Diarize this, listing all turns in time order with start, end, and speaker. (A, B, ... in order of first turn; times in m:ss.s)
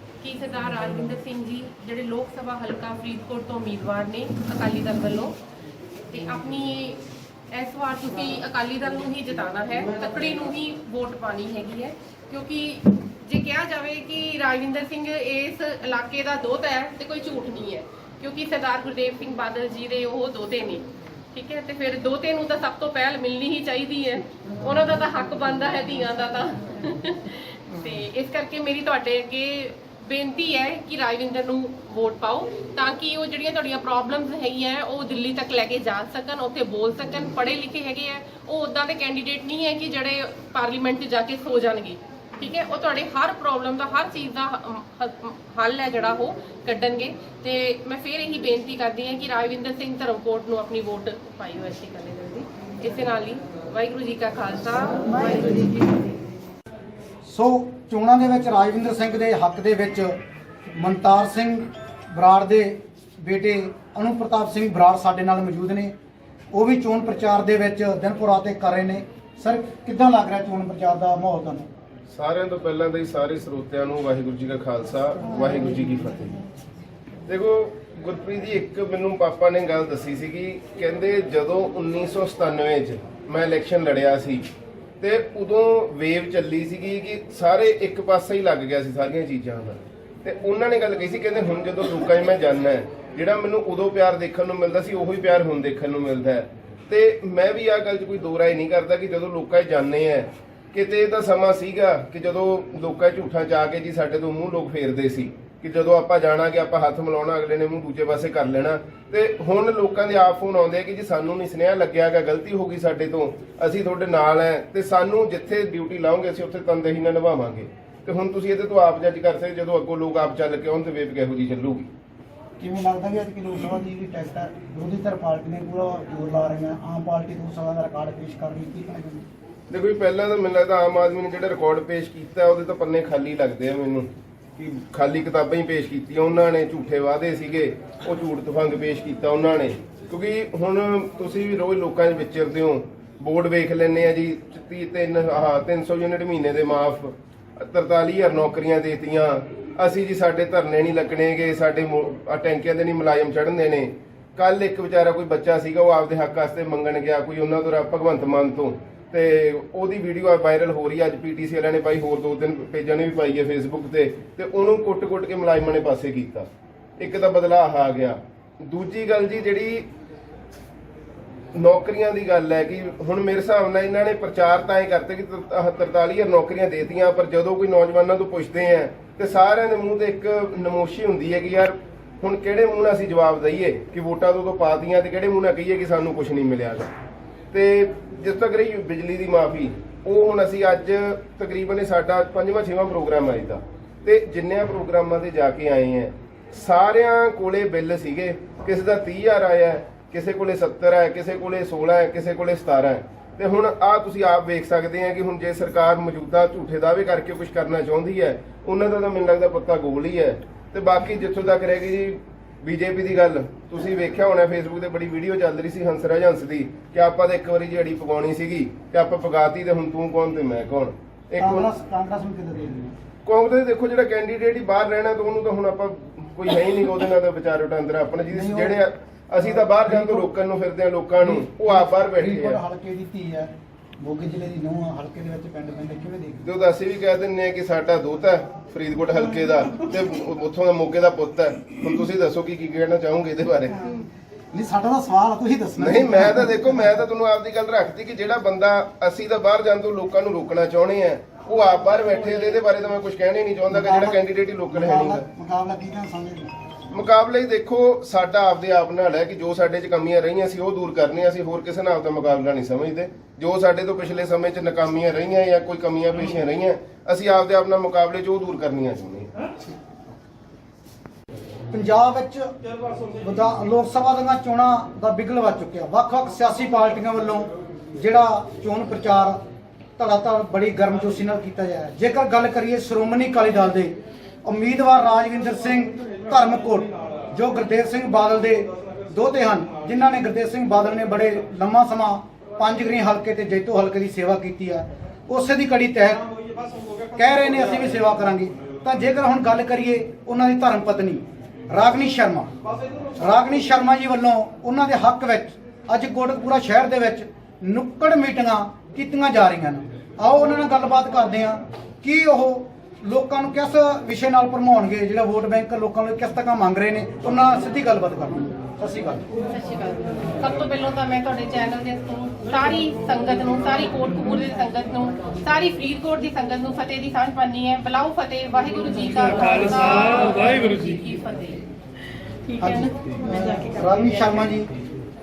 0:00.2-0:05.4 A
0:06.1-0:55.8 A
0:55.3-0:55.8 B
0:57.2-1:00.2 B
1:00.7-1:05.9 B
1:06.5-1:11.7 B
1:12.1-1:16.4 C
1:17.3-1:24.5 C
1:25.0-2:01.9 C
2:02.6-2:09.2 B
2:09.7-2:14.1 C
2:14.6-2:46.5 C
2:47.0-2:49.8 C
2:51.5-3:06.9 C
3:07.5-3:41.7 C
3:41.4-3:43.0 B
3:43.2-3:52.6 C
3:48.3-3:48.8 B
3:49.6-3:50.3 B
3:51.2-3:56.6 B
3:56.4-4:03.9 C
4:04.5-4:07.0 B
4:05.8-4:15.2 C
4:13.7-4:16.5 B
4:16.9-4:29.3 C
4:31.7-4:32.5 B
4:33.2-4:39.4 B
4:40.0-4:56.3 B
4:57.1-5:02.5 B
5:03.2-5:19.2 B
5:19.5-5:31.6 A
5:32.6-5:34.7 B